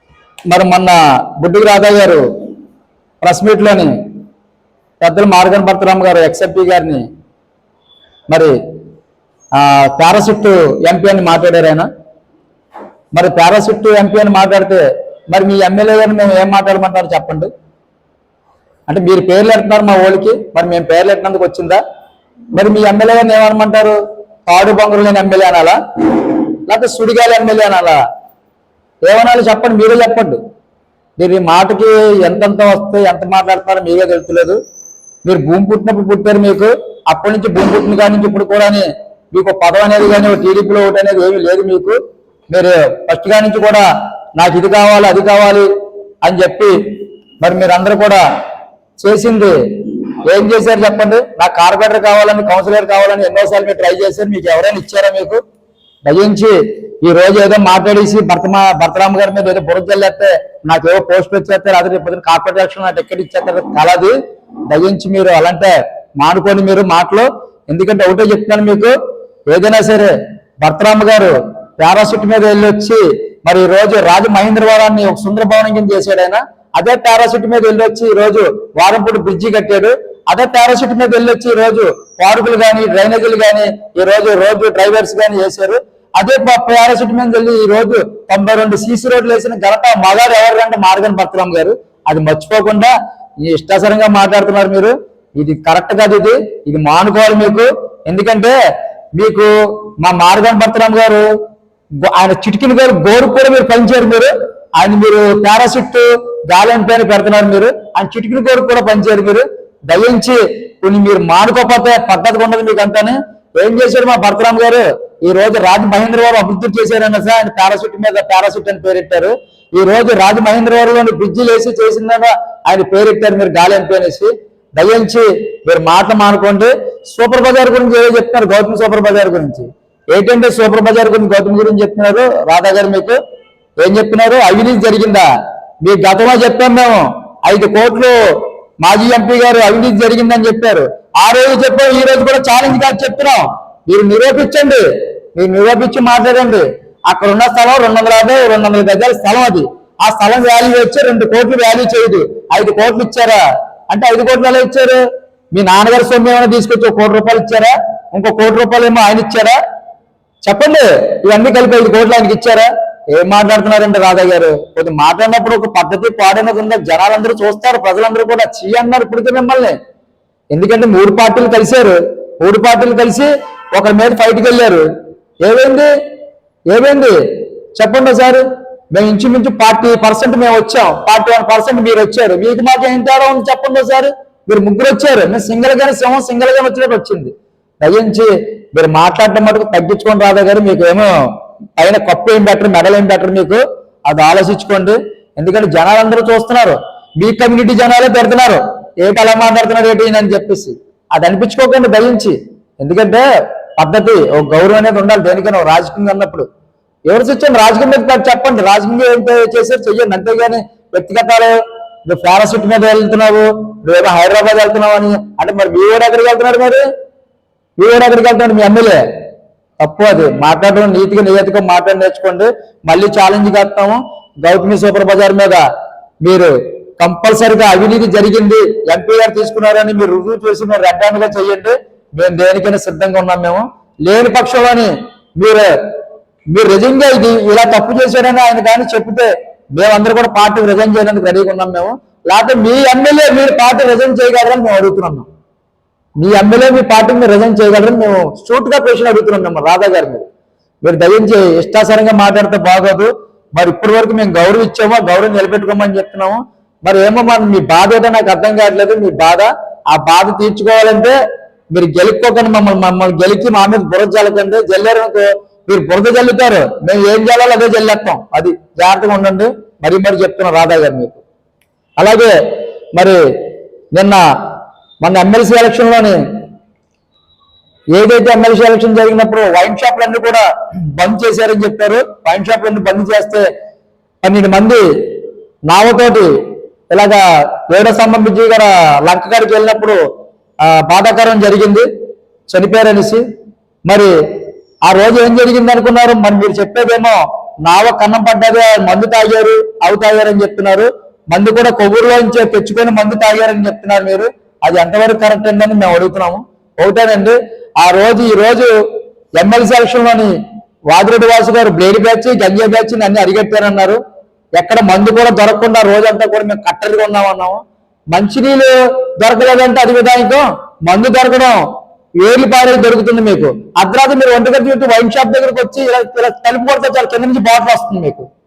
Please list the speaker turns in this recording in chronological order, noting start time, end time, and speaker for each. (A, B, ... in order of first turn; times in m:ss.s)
0:00.5-0:02.2 A
0:03.2-0:03.9 A
0:05.0-0:07.0 A
0:08.3-0:08.5 A
0:09.6-0:11.9 A
0:13.1-0:17.5 A
0:18.9-0:21.8 A
0:22.5-0:28.0 A
0:29.0-0:30.4 A
0:31.2-0:34.6 A
0:35.2-0:42.0 A
0:42.5-0:45.7 A
0:46.2-0:46.7 A
0:47.4-0:48.2 A
0:49.0-0:49.6 A
0:50.2-0:55.4 A
0:56.0-1:04.2 A
1:04.7-1:09.0 A
1:09.5-1:38.5 A
1:39.2-1:41.2 A
1:42.1-2:13.2 A
2:13.8-2:15.3 A
2:15.8-2:18.2 A
2:18.8-2:24.8 A
2:25.4-2:35.0 A
2:35.5-2:39.6 A
2:40.4-2:49.8 A
2:50.5-2:54.8 A
2:55.4-2:55.9 A
2:56.7-2:57.2 A
2:57.8-3:11.1 A
3:11.8-3:23.2 A
3:23.8-3:26.5 A
3:27.1-3:31.6 A
3:32.1-3:36.8 A
3:37.8-3:39.0 A
3:39.8-3:45.6 A
3:46.2-3:55.7 A
3:56.5-4:05.3 A
4:06.2-4:10.2 A
4:10.8-4:21.2 A
4:21.7-4:31.2 A
4:32.0-4:32.4 A
4:33.9-4:34.2 A
4:35.0-4:36.2 A
4:37.9-4:43.4 A
4:44.2-4:44.8 A
4:45.7-4:46.3 A
4:46.9-4:50.0 A
4:50.7-4:51.9 A
4:52.5-4:53.2 A
4:53.8-4:54.1 A
4:54.8-5:08.7 A
5:09.4-5:10.3 A
5:10.9-5:14.0 A
5:14.6-5:17.6 A
5:18.1-5:21.6 A
5:22.2-5:28.3 A